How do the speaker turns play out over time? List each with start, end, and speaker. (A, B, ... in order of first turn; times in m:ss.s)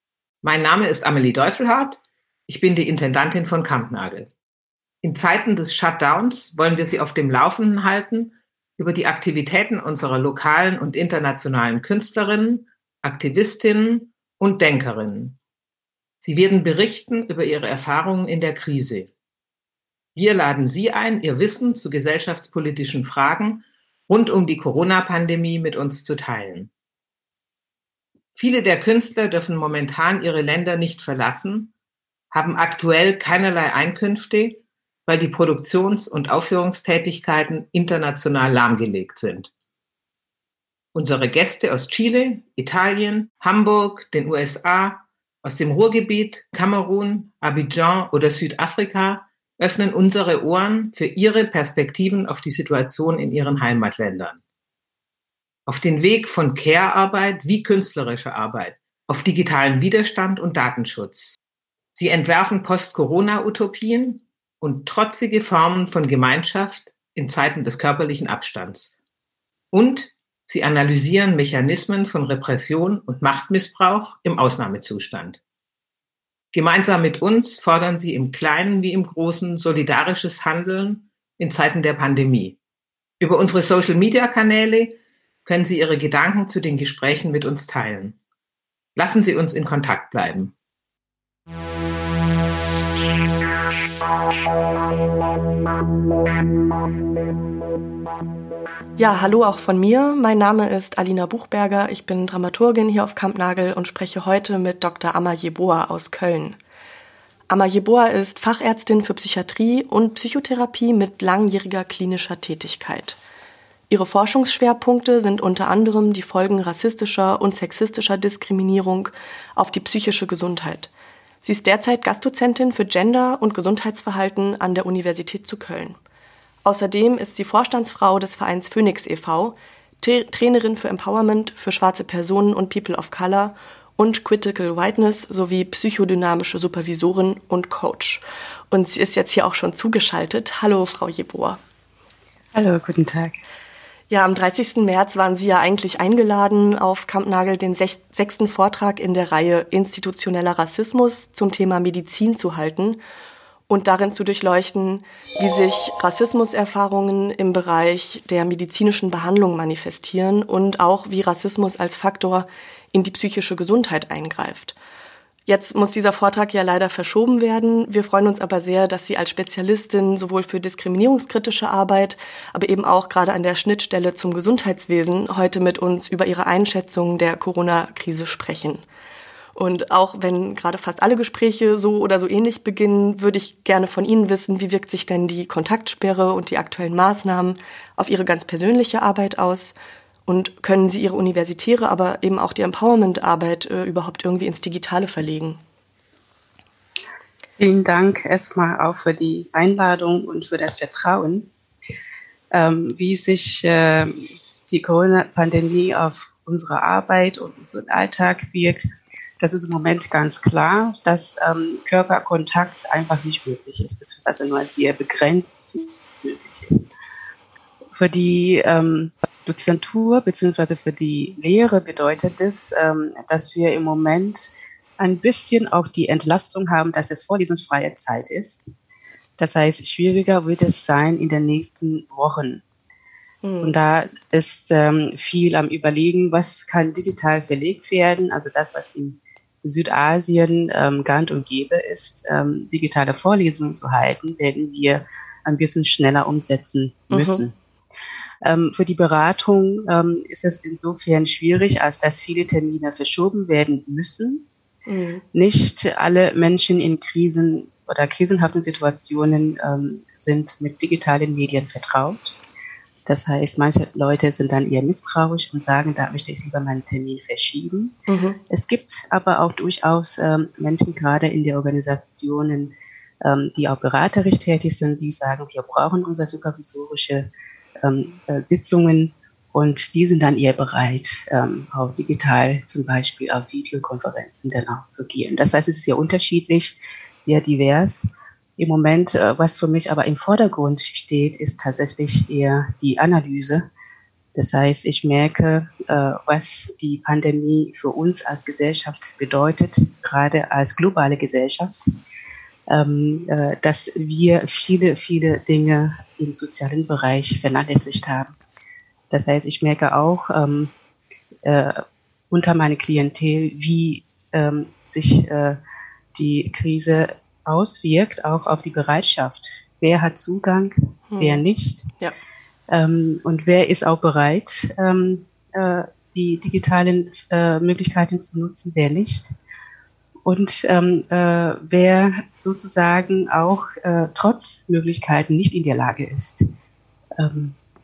0:00.4-0:04.3 A
0:05.0-0:15.4 A
0:16.2-0:19.1 A
0:20.2-0:26.7 A
0:28.3-0:31.7 A
0:32.3-0:39.5 A
0:40.9-0:54.4 A
0:55.7-1:01.4 A
1:01.9-1:08.9 A
1:09.7-1:15.4 A
1:16.5-1:22.6 A
1:23.2-1:28.2 A
1:29.0-1:30.5 A
1:39.0-1:46.6 B
1:47.5-1:53.2 B
1:53.9-2:00.9 B
2:01.4-2:06.0 B
2:06.6-2:21.6 B
2:22.5-2:23.4 C
2:24.1-2:33.0 B
2:33.7-2:44.8 B
2:45.5-2:58.8 B
2:59.5-3:09.7 B
3:10.3-3:15.6 B
3:17.6-3:21.5 C
3:22.5-3:28.8 C
3:29.4-3:36.9 C
3:37.9-3:48.6 C
3:49.4-3:52.6 C
3:53.4-3:53.8 B
3:53.6-4:07.5 C
4:07.1-4:07.4 B
4:08.4-4:14.4 C
4:14.9-4:15.2 B
4:15.3-4:22.4 C
4:23.1-4:28.0 C
4:28.1-4:28.4 B
4:28.5-4:37.3 C
4:37.8-4:53.6 C
4:54.4-5:01.9 C
5:02.7-5:08.4 C
5:09.1-5:10.7 C
5:11.4-5:15.6 C
5:16.1-5:21.8 C
5:21.1-5:21.4 B
5:22.7-5:29.3 C
5:30.2-5:36.4 C
5:37.2-5:37.6 C